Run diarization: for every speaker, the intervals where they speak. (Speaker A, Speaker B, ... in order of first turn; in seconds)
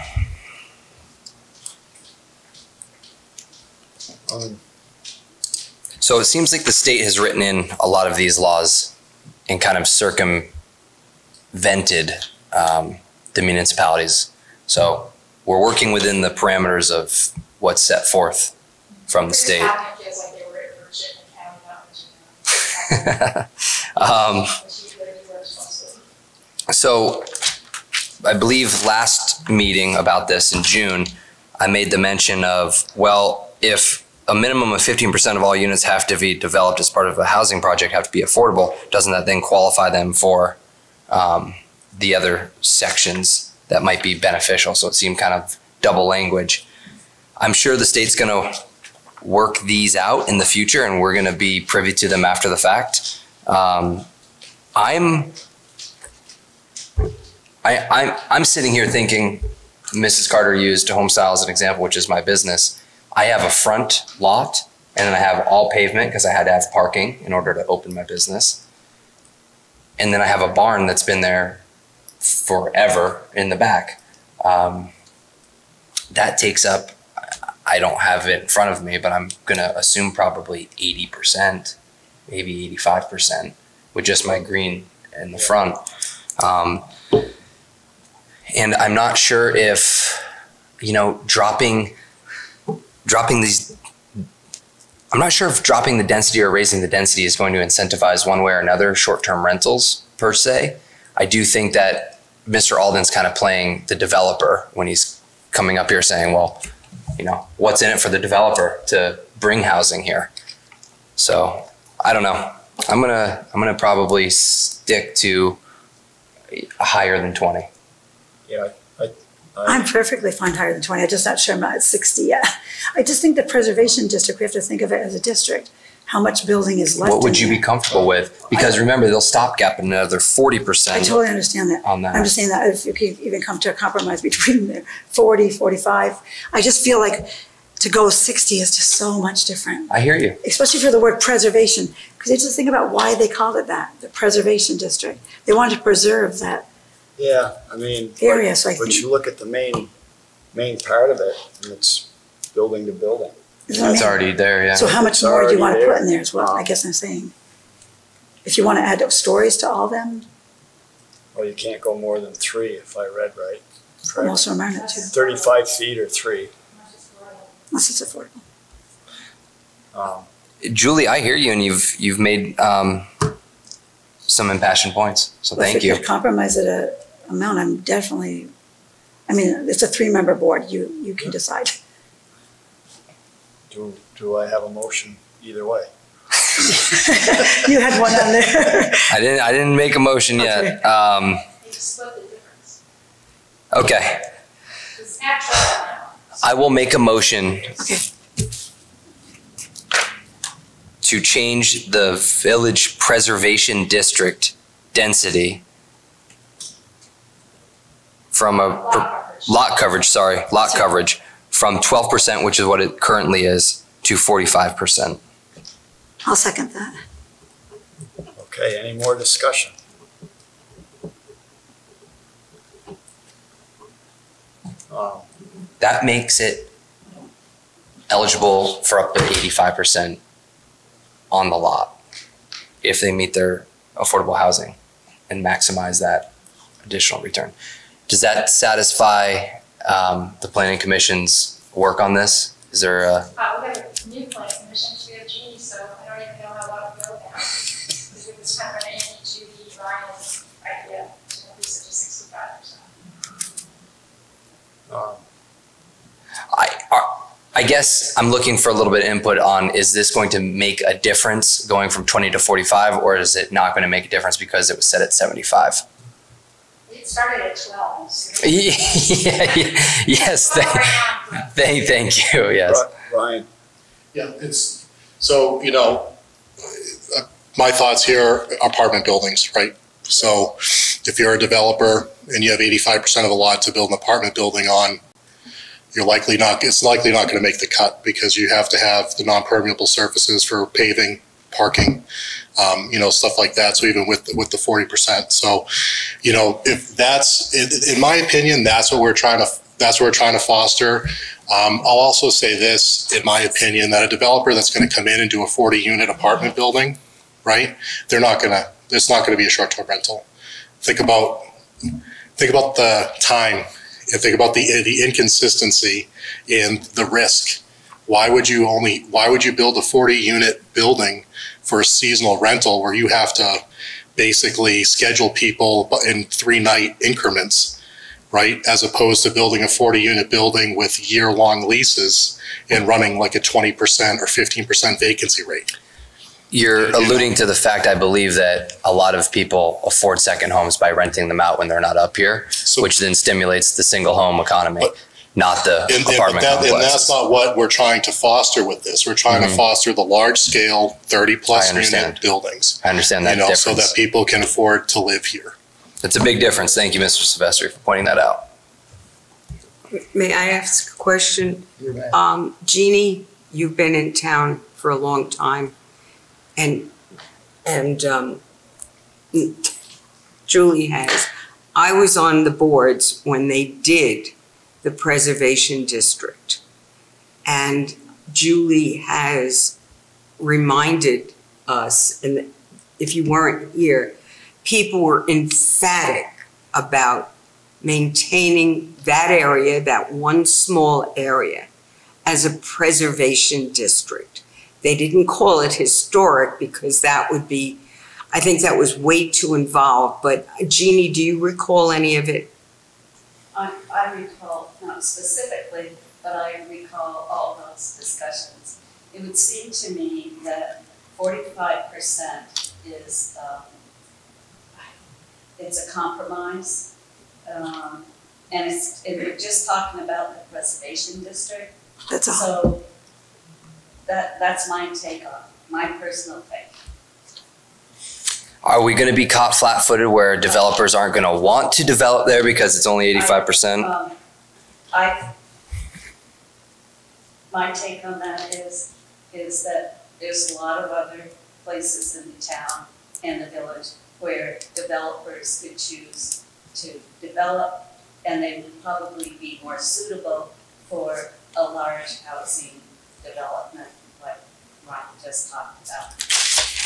Speaker A: 4.3-4.6, 118.5-119.8, 147.2-149.9, 150.5-154.1, 154.8-156.7, 161.3-164.4, 165.1-166.5, 169.9-170.3, 183.7-185.9, 218.4-219.8, 224.9-225.3, 254.9-255.2, 272.6-273.5, 361.8-362.2
Speaker B: 6.0-8.9, 9.5-10.5, 11.5-18.5, 19.1-19.7, 23.0-24.6, 26.7-27.3, 28.2-40.6, 41.1-46.6, 47.4-48.6, 49.2-54.1, 54.8-55.4, 57.6-68.6, 70.0-71.6, 72.2-74.9, 76.1-77.0, 77.7-81.8, 82.3-85.8, 86.4-86.9, 88.5-90.2, 90.8-92.0, 93.0-93.7, 95.1-106.6, 107.2-110.3, 111.2-115.6, 116.5-117.7, 127.0-131.2, 131.8-132.3, 139.9-140.4, 153.8-154.9, 170.6-173.3, 174.3-176.0, 189.1-191.4, 193.7-194.3, 196.4-197.8, 201.0-205.6, 208.3-215.2, 225.8-226.7, 228.1-230.2, 231.3-232.0, 232.8-234.8, 235.3-236.3, 236.8-237.5, 238.1-243.3, 256.5-265.8, 268.4-272.8, 336.5-347.1, 349.3-349.6, 351.5-352.2, 352.8-353.9, 356.0-358.5, 428.6-433.9
Speaker C: 19.1-23.4, 24.0-26.0, 164.7-165.6, 166.7-167.5, 191.6-192.8, 195.0-196.5, 208.6-209.6, 243.4-252.8, 266.9-269.4, 270.1-271.5
Speaker D: 119.7-127.6, 130.9-139.9, 140.4-146.7, 148.2-149.0, 153.7-154.2, 154.8-157.3, 158.4-160.3, 164.2-165.1, 167.7-168.4, 175.6-178.5, 179.3-181.8, 186.9-189.1, 190.4-190.8, 197.8-198.1, 216.2-217.0, 422.1-422.5
Speaker E: 274.1-276.1, 276.7-285.0, 285.9-295.7, 296.2-310.3, 310.8-311.4, 312.4-323.6, 324.2-327.8, 328.3-335.7, 336.8-337.3, 345.9-355.6
Speaker F: 360.1-365.8, 366.6-366.9, 367.6-368.4, 369.3-369.7, 370.5-376.6, 377.4-379.8, 380.4-391.7, 392.2-402.5
Speaker G: 403.5-413.7, 415.6-416.9, 417.4-421.7, 422.3-422.9, 424.1-426.7, 433.1-434.1, 434.9-435.3, 437.5-456.7